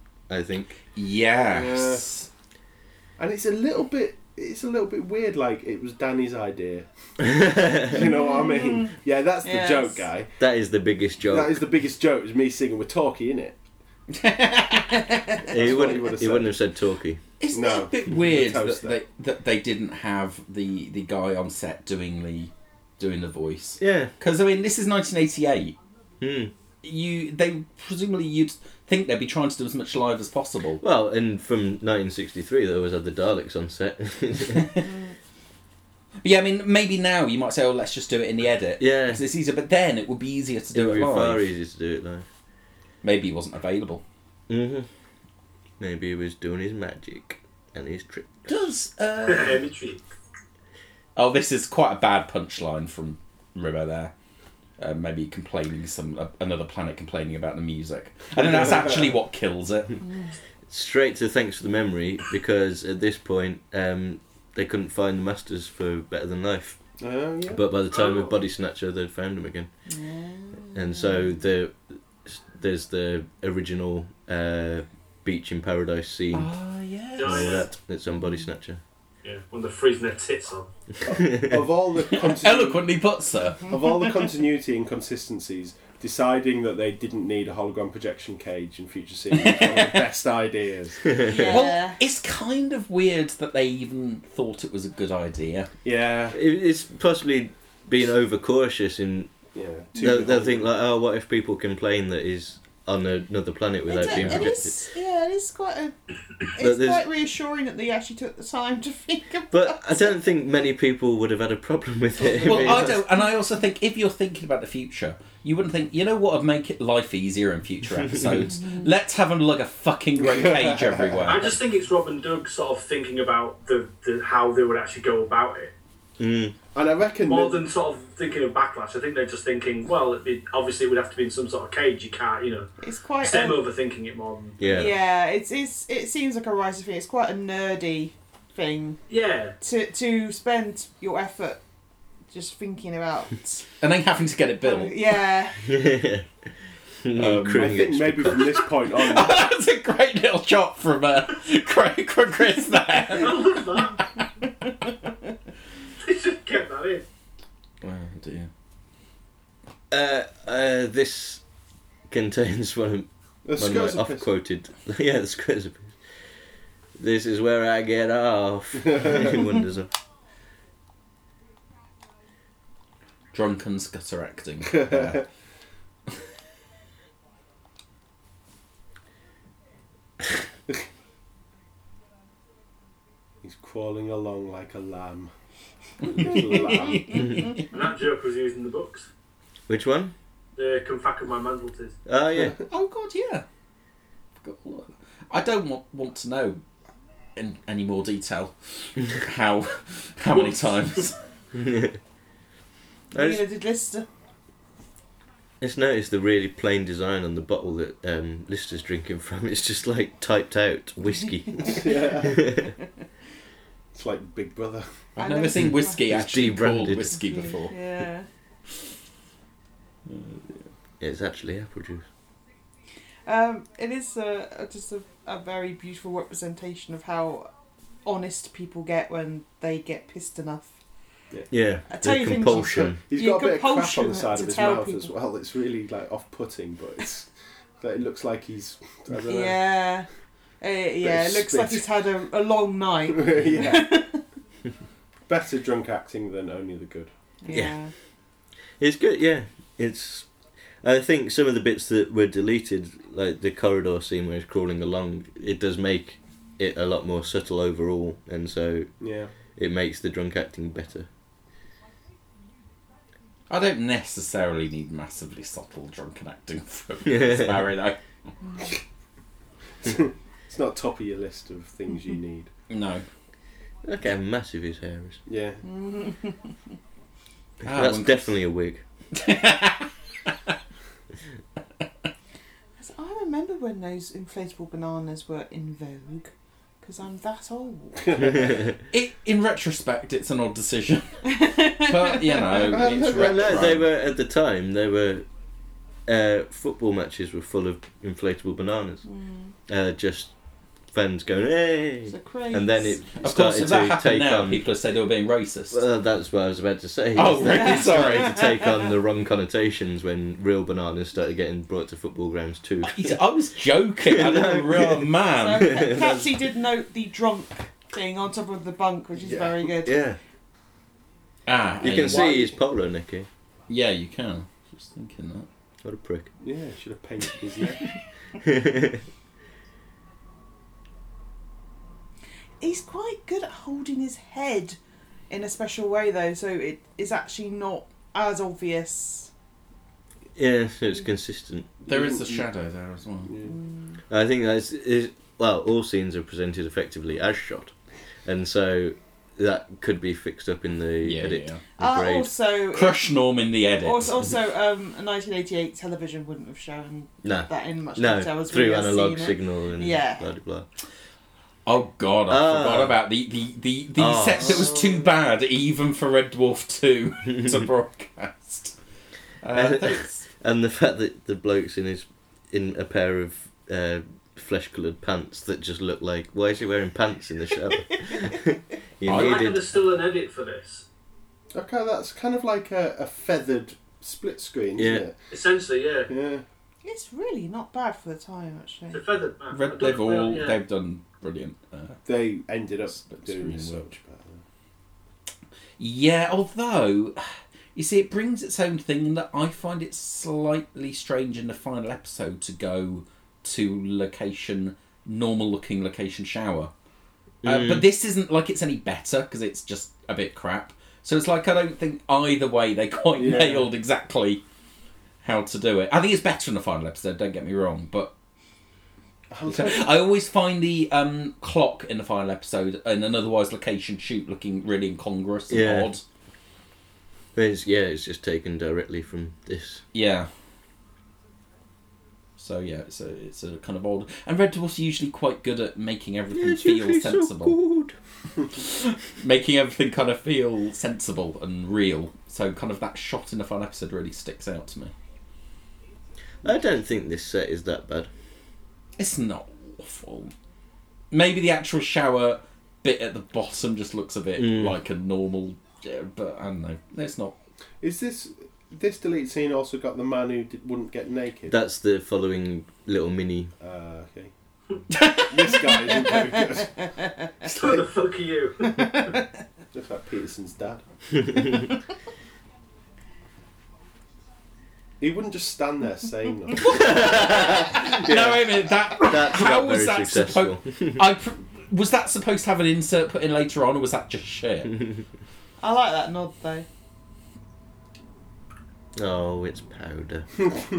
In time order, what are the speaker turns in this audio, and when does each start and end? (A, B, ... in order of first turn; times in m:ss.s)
0:00.3-0:00.8 A
0:00.9-0:02.3 B
0:01.4-0:02.1 C
0:03.2-0:06.9 C
0:07.2-0:08.1 A
0:07.9-0:10.4 C
0:08.0-0:08.9 D
0:09.4-0:10.1 D
0:10.4-0:11.6 A
0:11.2-0:13.6 C
0:14.1-0:15.5 B
0:14.9-0:15.4 D
0:15.4-0:16.6 C
0:15.5-0:17.2 A
0:17.4-0:25.7 B
0:17.5-0:19.0 C
0:23.8-0:24.1 A
0:26.2-0:26.5 A
0:26.8-0:30.8 B
0:30.8-0:34.8 A
0:34.6-0:34.9 B
0:36.2-0:41.5 B
0:38.8-0:39.2 A
0:40.7-0:42.2 A
0:43.0-0:44.0 B
0:44.5-0:44.9 A
0:45.8-0:48.6 A
0:48.5-0:49.7 B
0:49.2-0:50.0 E
0:51.2-0:54.1 B
0:54.8-1:00.0 B
0:58.4-0:59.1 C
1:00.0-1:00.3 D
1:00.7-1:06.8 A
1:07.0-1:07.6 C
1:07.5-1:09.7 A
1:07.9-1:08.4 E
1:09.9-1:11.3 D
1:10.7-1:16.6 A
1:16.3-1:17.6 B
1:17.2-1:17.7 E
1:17.2-1:18.8 A
1:19.2-1:20.7 E
1:21.0-1:22.9 C
1:21.1-1:21.6 A
1:22.1-1:24.2 B
1:23.7-1:31.1 C
1:29.4-1:30.0 B
1:31.1-1:31.7 A
1:31.2-1:32.0 D
1:31.4-1:35.7 B
1:35.8-1:36.4 C
1:36.3-1:39.3 A
1:39.5-1:40.7 C
1:40.0-1:44.8 A
1:43.9-1:45.9 D
1:44.1-1:44.5 B
1:46.5-1:50.2 D
1:46.6-1:47.1 A
1:49.5-1:53.1 A
1:52.2-1:53.0 D
1:52.4-2:01.6 B
1:58.1-1:58.5 A
2:00.2-2:01.4 C
2:01.2-2:05.7 E
2:06.2-2:06.6 A
2:06.7-2:07.6 C
2:07.2-2:14.9 E
2:12.8-2:13.6 D
2:14.6-2:15.0 A
2:14.7-2:19.0 D
2:19.1-2:19.6 E
2:19.6-2:21.6 D
2:22.3-2:23.6 D
2:23.8-2:25.2 B
2:24.6-2:25.6 D
2:25.6-2:26.3 A
2:27.0-2:28.6 A
2:27.2-2:27.9 B
2:27.5-2:29.4 C
2:28.9-2:34.2 B
2:33.1-2:34.1 E
2:36.0-2:37.0 E
2:37.8-2:38.1 A
2:38.0-2:38.5 B
2:39.9-2:41.4 A
2:42.1-2:46.0 A
2:43.4-2:44.3 C
2:47.0-2:49.9 A
2:48.9-2:49.3 C
2:53.3-2:55.2 B
2:54.8-2:55.2 C
3:03.4-3:05.3 C
3:06.0-3:07.4 C
3:06.2-3:06.6 B
3:06.3-3:07.6 D
3:07.2-3:07.5 A
3:07.7-3:09.1 E
3:09.7-3:10.1 A
3:10.6-3:12.0 E
3:12.1-3:12.6 A
3:12.6-3:13.4 B
3:14.4-3:16.6 B
3:17.4-3:21.2 B
3:20.3-3:21.1 E
3:21.5-3:22.0 A
3:23.1-3:23.4 A
3:23.1-3:24.1 D
3:25.6-3:32.7 A
3:31.6-3:32.4 C
3:33.9-3:35.1 C
3:35.2-3:37.9 B
3:35.2-3:36.1 D
3:35.6-3:37.4 A
3:37.1-3:38.3 D
3:40.1-3:40.7 B
3:41.0-3:42.0 A
3:43.2-3:47.5 D
3:48.0-3:50.8 D
3:51.5-3:53.0 A
3:51.9-3:55.1 D
3:52.5-3:57.3 C
3:57.8-3:59.6 C
3:59.2-4:00.1 D
4:00.6-4:04.2 D
4:01.0-4:01.8 C
4:03.1-4:04.0 C
4:05.3-4:07.1 C
4:07.4-4:07.9 D
4:07.5-4:07.8 A
4:08.8-4:10.3 A
4:10.8-4:18.9 A
4:19.0-4:19.3 C
4:19.6-4:21.1 A
4:23.5-4:28.0 B
4:27.1-4:27.8 A
4:29.8-4:32.5 C
4:32.7-4:33.0 B
4:33.8-4:35.2 A
4:35.2-4:35.6 C
4:35.6-4:36.5 D
4:37.6-4:38.8 A
4:37.6-4:38.3 B
4:39.1-4:40.5 B
4:42.8-4:48.4 D
4:48.0-4:48.6 C
4:48.2-4:48.8 A
4:48.9-4:53.9 B
4:51.3-4:52.6 D
4:52.5-4:53.8 C
4:53.0-4:55.2 A
4:56.1-4:59.0 A
4:59.0-4:59.5 D
4:59.7-5:00.3 A
5:00.9-5:04.6 A
5:02.1-5:03.0 D
5:03.2-5:05.8 B
5:05.7-5:13.2 A
5:07.2-5:08.8 B
5:12.8-5:15.8 B
5:14.0-5:16.4 A
5:15.3-5:20.0 D
5:19.2-5:19.6 C
5:19.8-5:20.2 A
5:21.5-5:22.5 B
5:21.8-5:23.3 A
5:22.1-5:22.5 C
5:23.7-5:25.5 B
5:25.8-5:26.3 A
5:26.4-5:27.8 C
5:28.4-5:29.0 A
5:32.6-5:34.8 D
5:35.3-5:39.3 D
5:40.4-5:41.8 A
5:41.8-5:42.5 C
5:41.9-5:43.4 B
5:43.3-5:43.5 C
5:43.5-5:44.0 D
5:44.1-5:52.3 A
5:51.0-5:51.6 B
5:51.8-5:53.3 D
5:52.7-5:54.2 B
5:53.8-6:00.3 D
5:57.2-6:00.7 A
6:01.6-6:08.8 B
6:02.3-6:03.0 A
6:04.0-6:04.9 A
6:07.4-6:07.6 A
6:09.4-6:10.3 B
6:09.5-6:19.7 A
6:19.1-6:19.4 B
6:19.1-6:20.8 E
6:21.5-6:25.2 C
6:24.8-6:25.1 A
6:25.3-6:26.1 E
6:26.1-6:26.4 C
6:26.8-6:29.0 D
6:28.9-6:30.6 E
6:29.5-6:32.0 B
6:32.1-6:34.4 C
6:32.9-6:33.9 B
6:35.8-6:37.2 B
6:37.8-6:46.7 B
6:47.4-6:47.9 A
6:47.4-6:54.4 B
6:53.2-6:53.7 C
6:55.2-6:58.1 B
6:59.3-6:59.9 C
6:59.4-7:06.0 B
7:05.5-7:05.9 A
7:07.4-7:09.8 A
7:09.9-7:10.3 B
7:12.4-7:17.6 B
7:16.3-7:18.0 A
7:18.5-7:24.9 B
7:26.4-7:28.1 A
7:29.0-7:30.3 B
7:31.1-7:37.4 B
7:34.4-7:34.8 A
7:37.8-7:41.6 C
7:41.5-7:43.5 A
7:43.6-7:44.3 C
7:44.9-7:46.0 B
7:45.2-7:46.8 C
7:47.4-7:49.2 E
7:47.5-7:47.8 C
7:48.8-7:49.1 D
7:49.7-7:50.8 C
7:51.2-7:51.7 A
7:55.0-7:57.5 C
7:56.6-8:01.1 A
7:57.6-8:04.7 B
8:05.6-8:06.6 D
8:08.9-8:10.4 A